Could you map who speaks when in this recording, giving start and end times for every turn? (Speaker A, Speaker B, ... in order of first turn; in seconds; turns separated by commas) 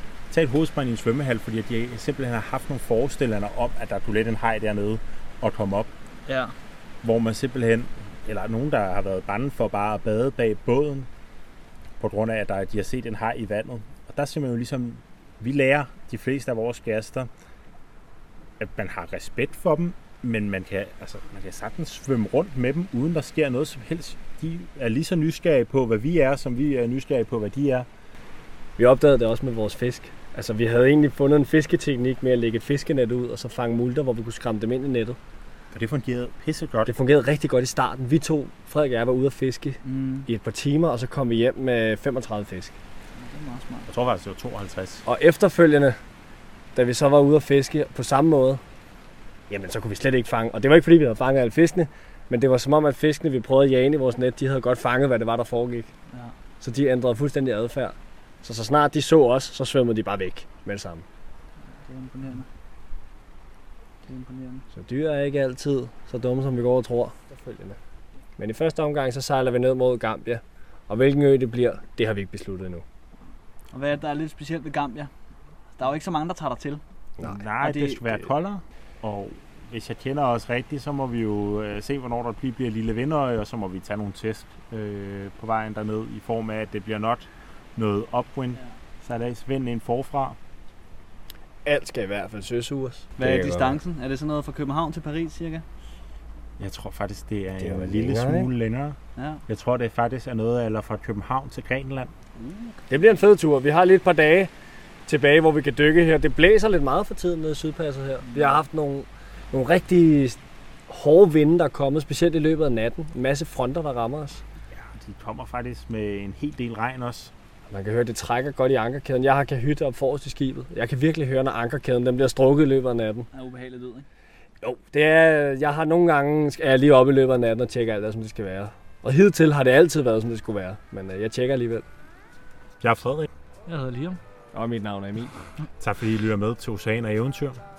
Speaker A: 0.3-5.9, Speaker B: 6.3-6.5, Speaker A: 7.0-11.1, Speaker A: 12.0-17.3, Speaker A: 18.6-27.9, Speaker C: 28.8-35.2, Speaker A: 35.7-36.9, Speaker C: 36.9-42.8, Speaker B: 39.8-40.3, Speaker B: 43.2-43.9, Speaker A: 43.9-45.0, Speaker C: 45.0-46.0, Speaker C: 46.7-48.6, Speaker C: 49.5-55.9, Speaker C: 56.6-61.0, Speaker B: 61.8-62.5, Speaker B: 64.0-64.7, Speaker C: 64.7-67.8, Speaker C: 68.4-72.8, Speaker B: 73.7-75.1, Speaker B: 75.8-76.8, Speaker C: 77.2-77.4, Speaker A: 77.2-90.4, Speaker B: 77.6-78.2, Speaker C: 91.6-93.8, Speaker B: 93.2-95.7, Speaker A: 96.6-102.1, Speaker C: 97.6-98.5, Speaker B: 99.2-99.4, Speaker B: 102.4-103.1, Speaker C: 102.9-104.5, Speaker C: 105.1-114.4, Speaker B: 108.2-108.6, Speaker A: 114.7-117.3, Speaker C: 117.7-123.3, Speaker B: 123.3-124.1, Speaker C: 124.6-131.9, Speaker A: 132.8-133.3, Speaker B: 133.7-134.2, Speaker C: 134.5-135.3, Speaker A: 135.8-137.6